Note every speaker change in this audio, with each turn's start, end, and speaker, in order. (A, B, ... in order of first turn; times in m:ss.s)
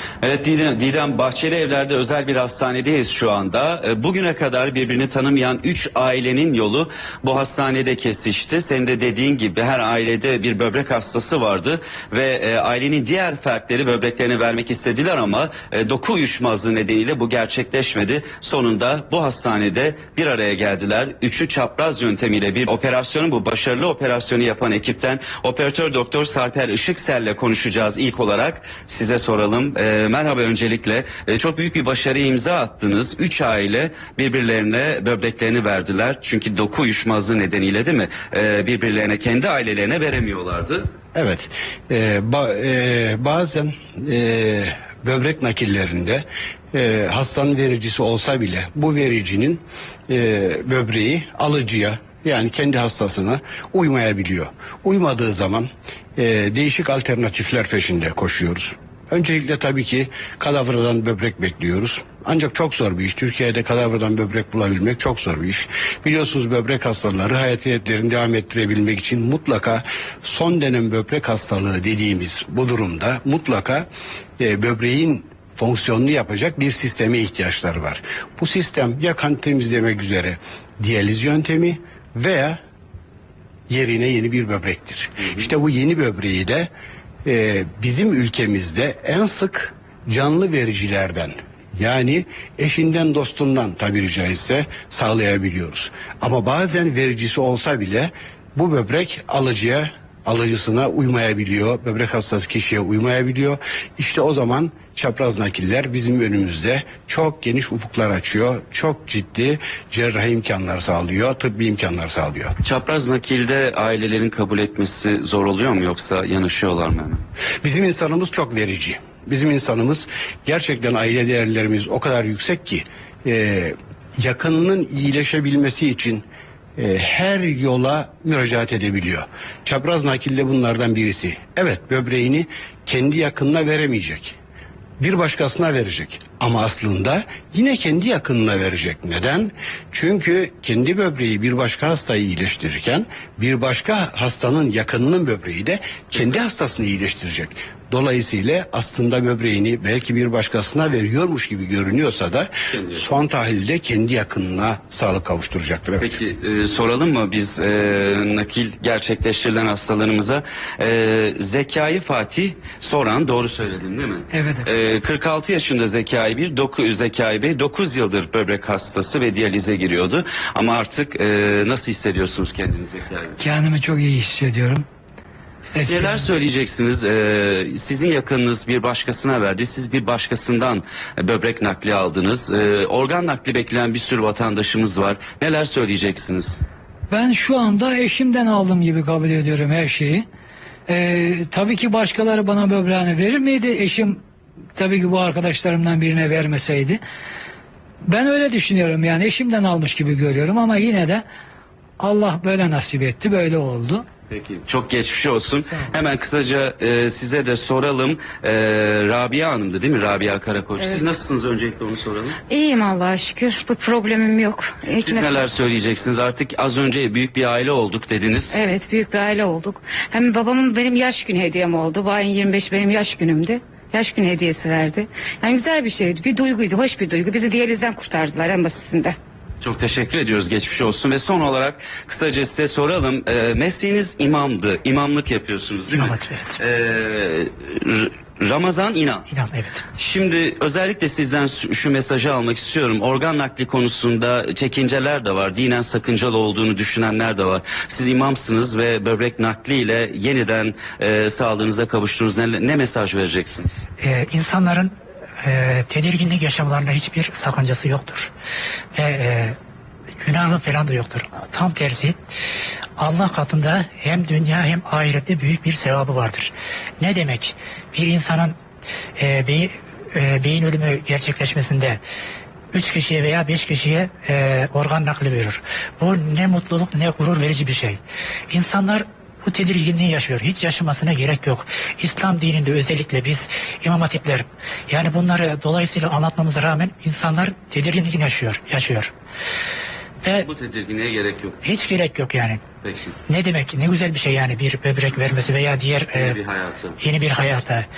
0:00.2-0:40.9 A
0:41.1-1:13.9 B
1:14.4-1:22.6 B
1:23.7-1:26.7 B
1:27.2-1:52.5 B
1:52.6-1:57.2 A
1:57.6-2:06.2 B
2:06.8-2:14.4 B
2:15.0-2:36.1 B
2:32.7-2:33.0 A
2:36.0-2:53.4 A
2:53.5-2:54.8 C
2:55.8-3:06.6 A
3:07.1-3:10.2 C
3:10.9-3:14.2 C
3:14.8-3:17.0 C
3:18.0-3:21.2 C
3:22.0-3:24.0 C
3:24.3-3:32.4 A
3:30.8-3:31.1 D
3:32.5-3:35.3 D
3:35.0-3:38.6 A
3:38.5-3:49.2 D
3:49.6-3:59.3 A
3:55.9-3:56.6 E
3:59.3-3:59.8 E
4:00.0-4:13.8 A
4:14.0-4:14.9 E
4:15.4-4:18.3 E
4:18.9-4:19.5 E
4:20.2-4:22.2 E
4:23.0-4:28.5 E
4:29.2-4:32.0 E
4:32.7-4:49.1 E
4:50.4-4:51.6 A
4:51.6-4:52.6 E
4:52.8-4:53.2 A
4:53.3-4:56.4 E
4:56.1-4:57.0 A
4:57.0-4:57.9 E